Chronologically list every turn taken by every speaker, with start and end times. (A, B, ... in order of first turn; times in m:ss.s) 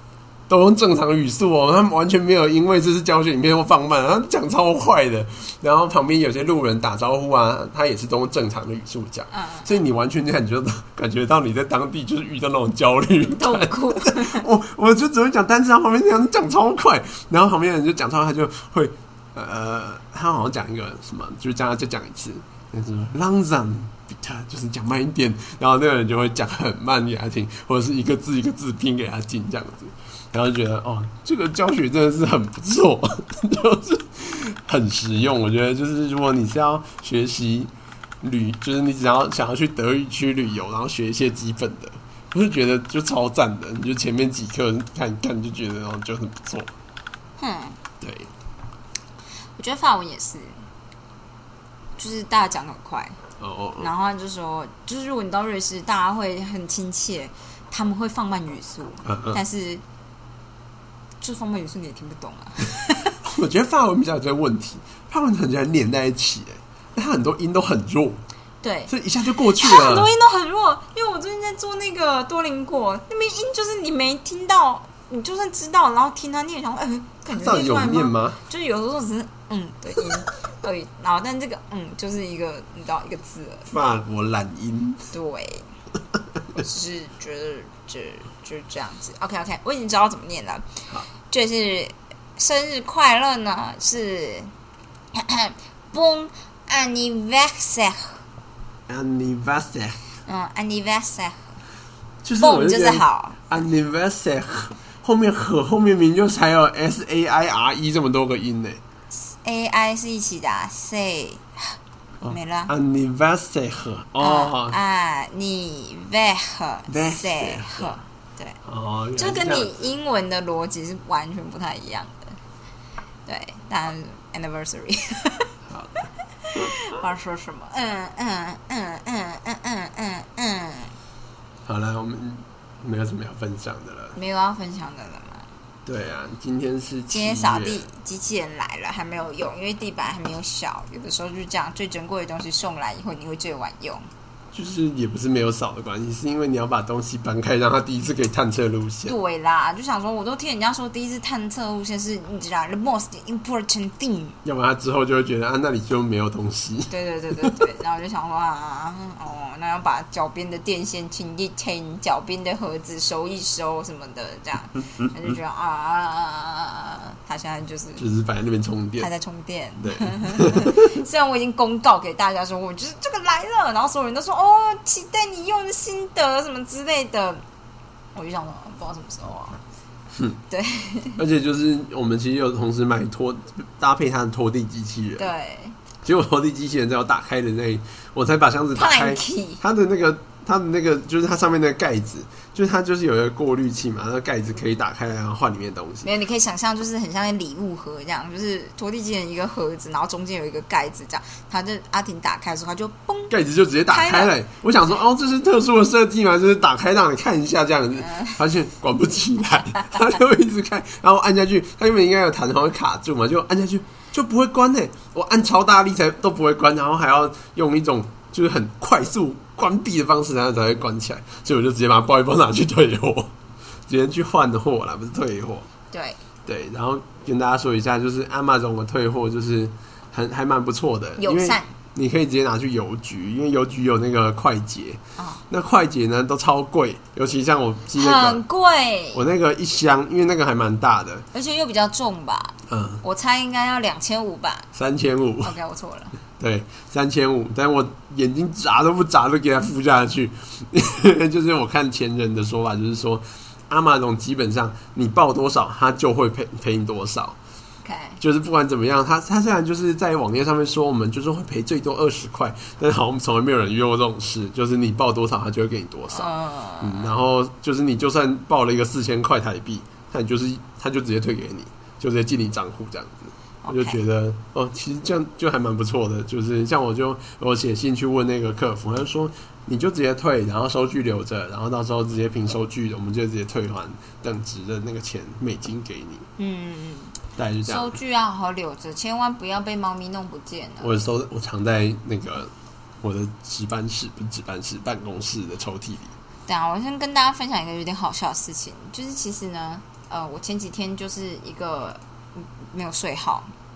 0:00.5-0:46.7 A
0:09.3-0:09.8 B
0:13.3-0:14.4 B
0:47.4-0:47.8 B
0:48.0-0:48.3 A
0:49.6-0:50.6 B
0:52.0-0:53.2 B
0:53.4-0:53.9 A
0:53.8-0:59.8 B
0:59.0-0:59.4 A
1:01.2-1:03.2 B
1:03.2-1:08.2 A
1:08.6-1:08.9 B
1:08.9-1:10.1 A
1:09.5-1:23.7 B
1:17.3-1:18.4 A
1:23.7-1:25.0 A
1:25.1-1:25.7 B
1:26.6-1:30.8 B
1:31.3-1:34.5 B
1:35.1-1:38.2 B
1:38.9-1:40.0 A
1:40.3-1:41.6 B
1:42.2-1:48.8 A
1:42.4-1:43.6 B
1:49.1-1:51.8 B
1:52.2-1:54.8 A
1:52.3-1:52.7 B
1:54.2-1:58.6 B
1:56.9-1:58.0 A
1:58.6-1:59.8 A
1:59.2-2:02.3 B
2:03.3-2:05.5 B
2:05.7-2:06.1 A
2:06.4-2:11.0 B
2:11.7-2:14.2 A
2:14.2-2:15.4 B
2:15.9-2:17.9 A
2:17.1-2:24.1 B
2:24.5-2:29.1 A
2:29.1-2:34.4 B
2:34.4-2:36.9 A
2:36.9-2:48.0 B
2:48.0-2:49.1 A
2:49.0-2:57.4 B
2:49.8-2:50.9 A
2:58.1-2:59.6 B
3:00.5-3:01.2 B
3:01.2-3:05.3 A
3:05.2-3:05.8 B
3:06.0-3:16.1 A
3:08.8-3:09.6 B
3:16.0-3:23.4 B
3:23.3-3:43.3 A
3:23.9-3:24.3 B
3:28.0-3:28.4 B
3:43.9-3:45.7 A
3:45.9-3:46.2 B
3:46.4-3:58.4 A
3:51.2-3:51.7 B
3:55.2-3:55.4 B
3:57.9-3:59.2 B
3:59.1-4:01.3 A
4:01.3-4:04.7 B
4:02.7-4:03.0 A
4:04.7-4:05.5 A
4:05.4-4:06.1 B
4:06.4-4:17.4 A
4:17.8-4:18.2 B
4:18.2-4:26.3 A
4:26.1-4:27.1 B
4:26.8-4:46.3 A
4:33.6-4:34.0 B
4:46.4-4:51.0 B
4:47.4-4:48.0 A
4:50.8-4:52.5 A
4:53.0-4:56.1 A
4:56.5-5:03.5 B